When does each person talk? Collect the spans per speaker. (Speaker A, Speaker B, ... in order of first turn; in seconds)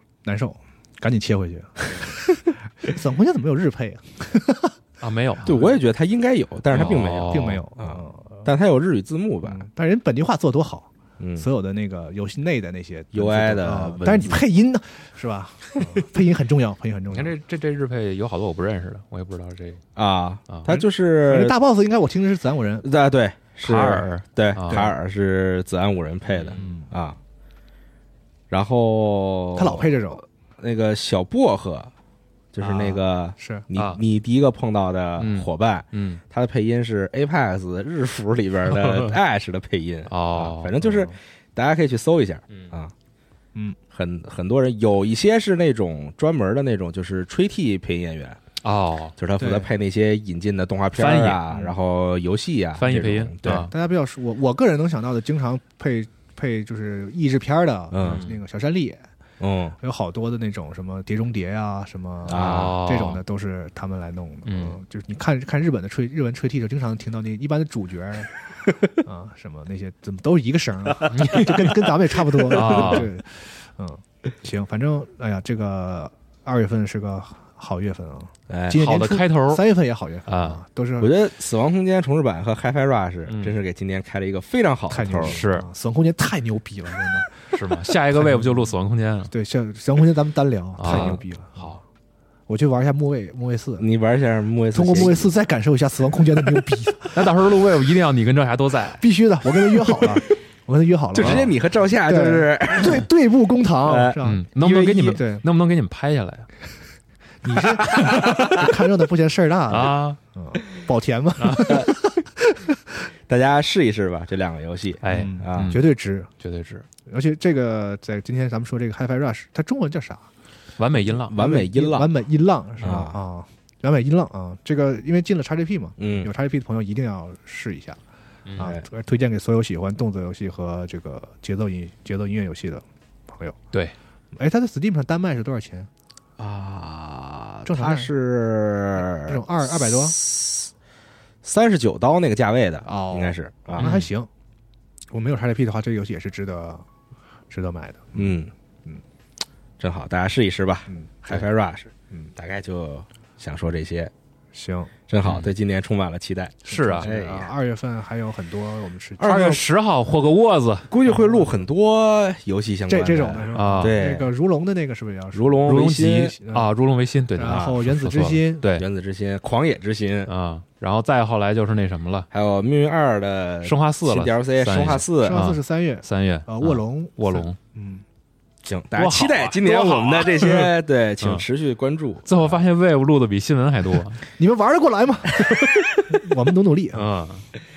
Speaker A: 0.2-4.7, 6.7-8.4, 9.4-17.3, 20.7-22.9, 26.5-26.9, 29.6-30.2, 32.6-33.6, 40.8-41.1, 49.4-49.7, 53.5-59.0, 59.8-68.3, 69.0-81.1, 84.9-88.7, 89.3-91.7, 92.5-93.8, 94.7-97.3, 99.0-101.5, 102.0-105.4, 107.4-112.8, 115.0-116.3, 117.0-120.3, 121.3-128.0, 128.6-133.6, 134.3-135.9, 137.6-138.1, 139.1-140.2, 142.8-144.3, 145.1-146.8, 147.5-149.0, 150.9-151.4, 154.5-154.9, 156.7-159.6, 161.1-161.6, 162.9-166.7, 167.4-168.7, 175.2-178.0, 184.3-187.1
Speaker B: 5.0-5.7, 6.7-7.6, 17.1-19.8, 23.6-24.8, 33.8-34.0, 35.2-36.2, 38.8-39.1, 40.1-40.7, 48.6-49.1, 50.9-51.4, 52.8-53.7, 58.0-58.4, 62.3-63.2, 64.5-64.8, 71.1-71.7, 72.5-73.1, 78.7-79.6, 80.3-80.6, 83.3-83.5, 85.2-85.7, 87.5-89.3, 90.8-91.8, 97.1-99.0, 101.2-101.5, 104.2-106.5, 107.9-108.3, 109.7-110.2, 111.4-111.9, 115.0-115.9, 116.4-116.8, 120.8-121.4, 143.8-144.1, 156.7-157.1, 159.2-160.9, 163.5-164.0, 165.6-168.8, 170.3-172.3, 173.6-177.6, 178.9-181.4, 182.2-184.2, 186.9-187.4
Speaker C: 5.4-9.7, 11.2-11.4, 13.1-14.4, 19.9-21.5, 22.8-27.2, 28.5-29.9, 30.6-31.9, 32.5-42.9, 43.9-48.4, 49.2-53.7, 57.9-58.2, 59.4-59.8, 62.3-62.8, 72.6-73.0, 78.5-78.8, 81.0-85.4, 90.8-91.2, 93.8-95.3, 101.1-103.1, 103.8-105.2, 107.9-108.6, 113.3-115.8, 121.2-122.1, 122.8-123.1, 126.0-126.3, 128.6-128.8, 136.4-140.7, 141.4-144.0, 148.1-148.5, 149.8-154.1, 155.1-157.5, 159.2-159.6, 160.9-164.3, 165.3-166.3, 167.4-167.7, 168.7-170.3, 172.3-175.4, 178.6-182.5